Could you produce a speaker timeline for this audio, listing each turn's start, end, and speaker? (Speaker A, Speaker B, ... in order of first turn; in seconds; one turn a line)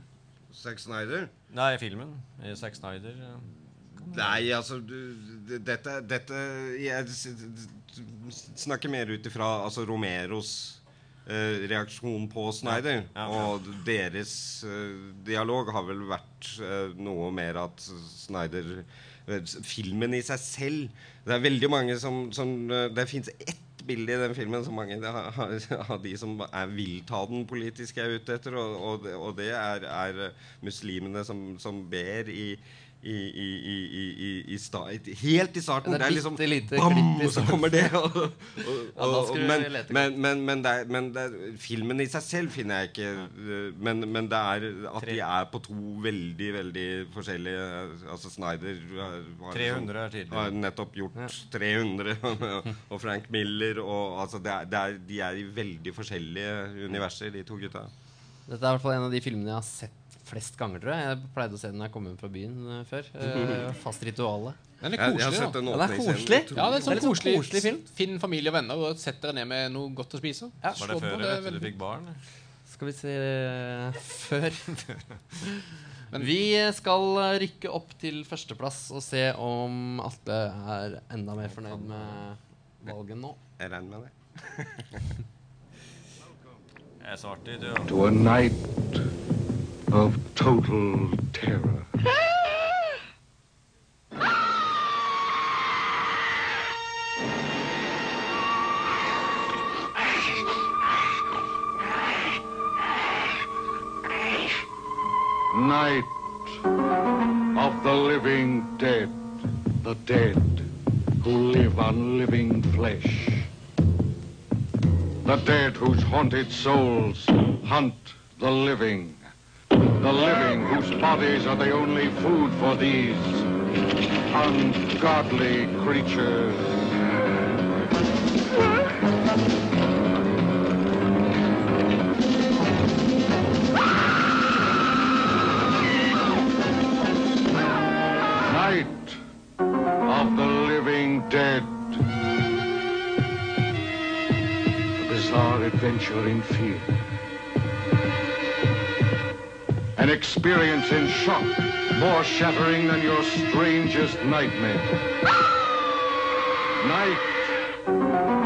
Speaker A: 0.5-1.3
Speaker B: 1.5-4.5
Speaker A: 4.0-57.9
Speaker B: 12.7-13.5
Speaker C: 35.8-37.9
Speaker C: 38.9-40.1
Speaker B: 49.5-50.5
Speaker C: 58.5-64.6
Speaker A: 63.2-63.6
Speaker D: 64.8-65.6
Speaker A: 64.9-67.1
Speaker C: 65.7-67.8
Speaker D: 66.5-71.8
Speaker B: 70.8-72.2
Speaker C: 72.7-74.8
Speaker C: 76.1-83.4
Speaker B: 81.7-82.0
Speaker A: 83.6-85.1
Speaker B: 87.0-88.0
Speaker E: 87.8-89.0
Speaker E: 89.9-91.9
Speaker E: 105.5-106.2
Speaker E: 107.5-109.2
Speaker E: 109.8-110.7
Speaker E: 111.2-113.5
Speaker E: 115.2-119.2
Speaker E: 120.0-123.5
Speaker E: 124.3-126.7
Speaker E: 138.4-139.2
Speaker E: 140.0-142.0
Speaker E: 145.0-146.9
Speaker E: 150.0-155.0
Speaker E: 156.8-157.6